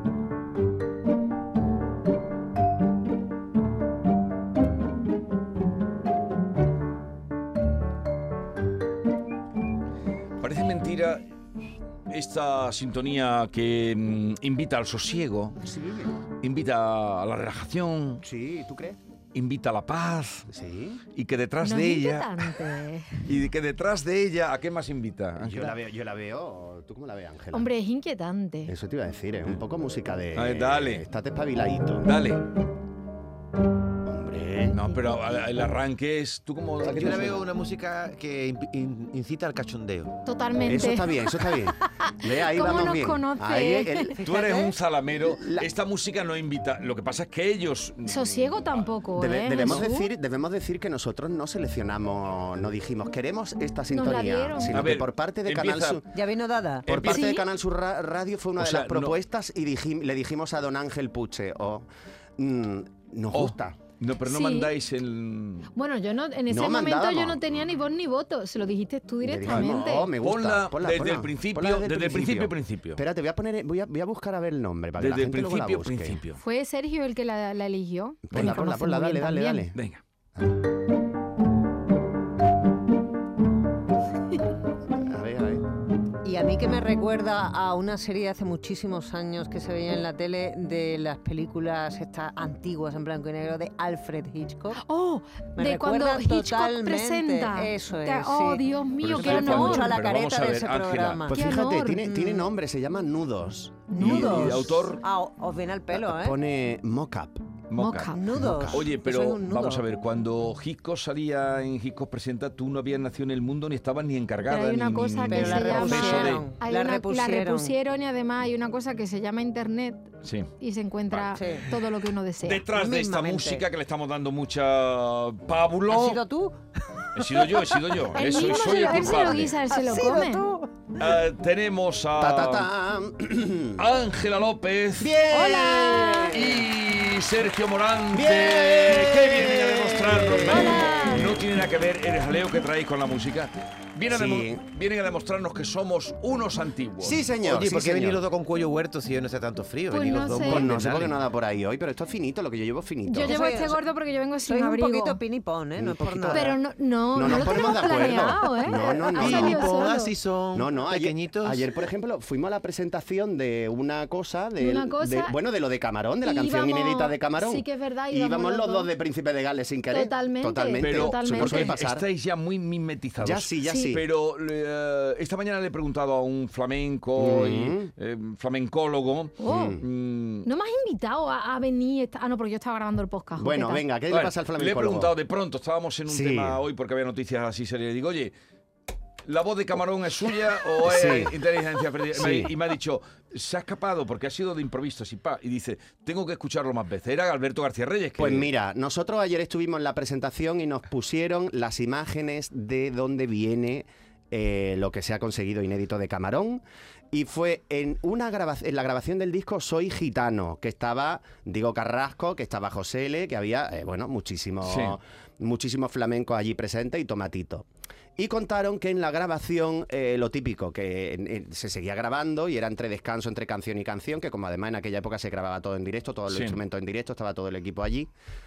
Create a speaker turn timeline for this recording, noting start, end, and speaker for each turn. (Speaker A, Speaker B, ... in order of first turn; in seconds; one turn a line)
Speaker A: 10.4-11.2
Speaker A: 12.1-15.6
Speaker B: 15.6-16.2
Speaker A: 16.4-18.2
Speaker B: 18.2-19.0
Speaker A: 19.3-20.5
Speaker B: 20.5-21.0
Speaker A: 21.1-22.7
Speaker C: 21.6-23.2
Speaker A: 23.2-25.8
Speaker B: 25.4-27.7
Speaker C: 27.5-28.7
Speaker B: 28.7-32.1
Speaker A: 30.4-31.0
Speaker A: 32.0-32.5
Speaker B: 34.0-34.8
Speaker A: 34.7-37.5
Speaker C: 34.9-35.2
Speaker D: 36.9-40.2
Speaker C: 40.2-44.2
Speaker B: 40.6-44.2
Speaker E: 44.2-44.8
Speaker A: 44.2-48.9
Speaker B: 45.2-45.7
Speaker C: 48.1-50.1
Speaker B: 49.2-56.1
Speaker C: 53.9-54.8
Speaker A: 54.7-56.0
Speaker E: 56.1-57.0
Speaker A: 56.9-57.3
Speaker B: 56.9-61.9
Speaker C: 57.1-57.4
Speaker A: 58.6-59.2
Speaker B: 62.4-63.8
Speaker A: 63.3-65.7
Speaker C: 64.3-64.7
Speaker C: 65.8-70.1
Speaker B: 66.5-67.7
Speaker B: 69.2-76.2
Speaker A: 69.5-73.0
Speaker A: 75.0-76.4
Speaker C: 76.4-79.7
Speaker B: 78.3-79.8
Speaker A: 79.7-80.0
Speaker B: 84.9-85.6
Speaker E: 86.2-94.8
Speaker C: 94.8-100.0
Speaker E: 95.6-101.4
Speaker A: 99.0-101.3
Speaker B: 101.3-104.0
Speaker C: 101.3-102.0
Speaker E: 102.0-102.5
Speaker C: 103.9-104.5
Speaker E: 104.0-106.4
Speaker A: 104.0-105.0
Speaker B: 105.9-107.5
Speaker A: 107.7-108.1
Speaker C: 107.8-108.2
Speaker E: 108.1-109.8
Speaker B: 108.3-108.9
Speaker A: 108.7-116.5
Speaker C: 114.5-122.7
Speaker E: 115.3-117.8
Speaker A: 120.2-120.5
Speaker A: 121.1-121.4
Speaker E: 121.4-121.7
Speaker A: 122.4-126.2
Speaker E: 122.7-123.7
Speaker E: 125.9-131.0
Speaker A: 127.2-129.5
Speaker C: 128.1-130.4
Speaker A: 131.0-132.7
Speaker B: 132.2-133.9
Speaker A: 133.8-135.2
Speaker B: 135.0-136.7
Speaker C: 135.3-136.4
Speaker A: 136.2-147.3
Speaker B: 138.1-141.4
Speaker C: 140.4-141.4
Speaker B: 144.1-144.6
Speaker B: 147.0-148.2
Speaker D: 147.4-151.2
Speaker C: 149.9-150.7
Speaker B: 150.4-153.4
Speaker C: 153.1-155.2
Speaker E: 153.2-153.8
Speaker E: 154.5-156.5
Speaker B: 155.8-156.6
Speaker C: 156.3-160.1
Speaker B: 157.2-159.7
Speaker D: 159.1-161.7
Speaker B: 160.5-172.1
Speaker C: 164.6-165.3
Speaker C: 166.2-168.9
Speaker C: 169.9-171.8
Speaker A: 170.8-180.5
Speaker B: 173.2-174.1
Speaker C: 173.7-173.9
Speaker B: 177.2-177.9
Speaker C: 179.4-179.8
Speaker B: 179.5-179.8
Speaker C: 180.4-183.8
Speaker B: 183.4-185.1
Speaker A: 184.1-188.3
Speaker B: 186.1-186.6
Speaker A: 189.3-198.5
Speaker B: 190.8-191.3
Speaker B: 192.1-192.5
Speaker B: 198.2-217.7
Speaker A: 214.7-215.0
Speaker B: 218.2-228.1
Speaker A: 226.3-226.6